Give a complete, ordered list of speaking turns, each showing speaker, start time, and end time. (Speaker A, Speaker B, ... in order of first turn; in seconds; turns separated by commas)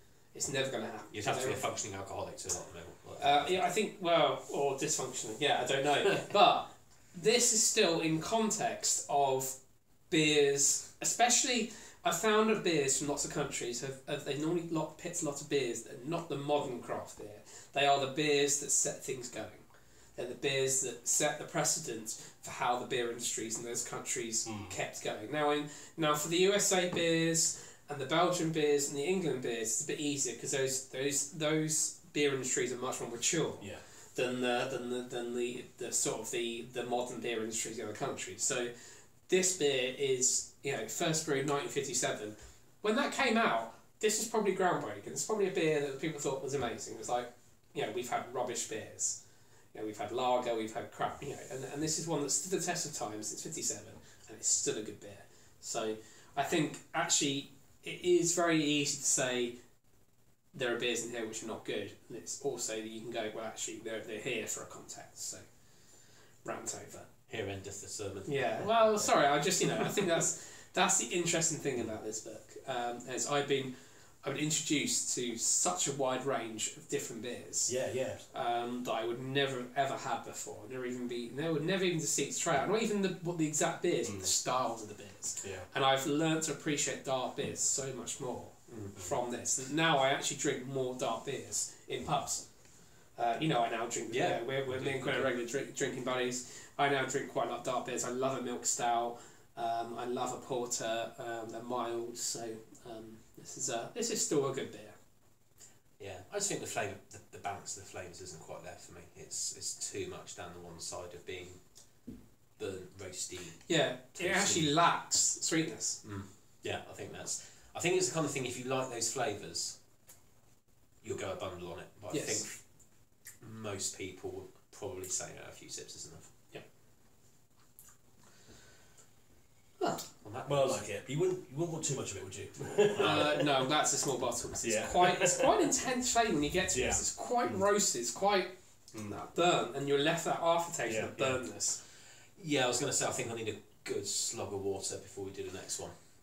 Speaker A: 0.3-1.6, Speaker B: 1.1-3.7, Speaker A: 3.2-19.6, Speaker A: 20.2-38.7, Speaker C: 24.4-24.8, Speaker A: 39.3-49.2, Speaker A: 49.7-59.6, Speaker A: 60.5-65.4, Speaker A: 66.4-67.1, Speaker B: 67.3-70.0, Speaker A: 68.3-77.7, Speaker C: 77.7-78.2, Speaker A: 78.3-92.5, Speaker C: 84.1-84.3, Speaker C: 85.4-85.7, Speaker B: 88.7-89.0, Speaker A: 93.1-105.0, Speaker B: 94.1-95.3, Speaker B: 106.0-114.7, Speaker A: 113.7-116.0, Speaker B: 116.0-119.8, Speaker B: 121.0-126.3, Speaker A: 122.1-122.5, Speaker B: 130.2-130.8, Speaker C: 130.5-133.7, Speaker A: 133.0-141.8, Speaker C: 134.6-135.5, Speaker C: 136.7-137.6, Speaker C: 140.9-141.4, Speaker B: 142.4-145.9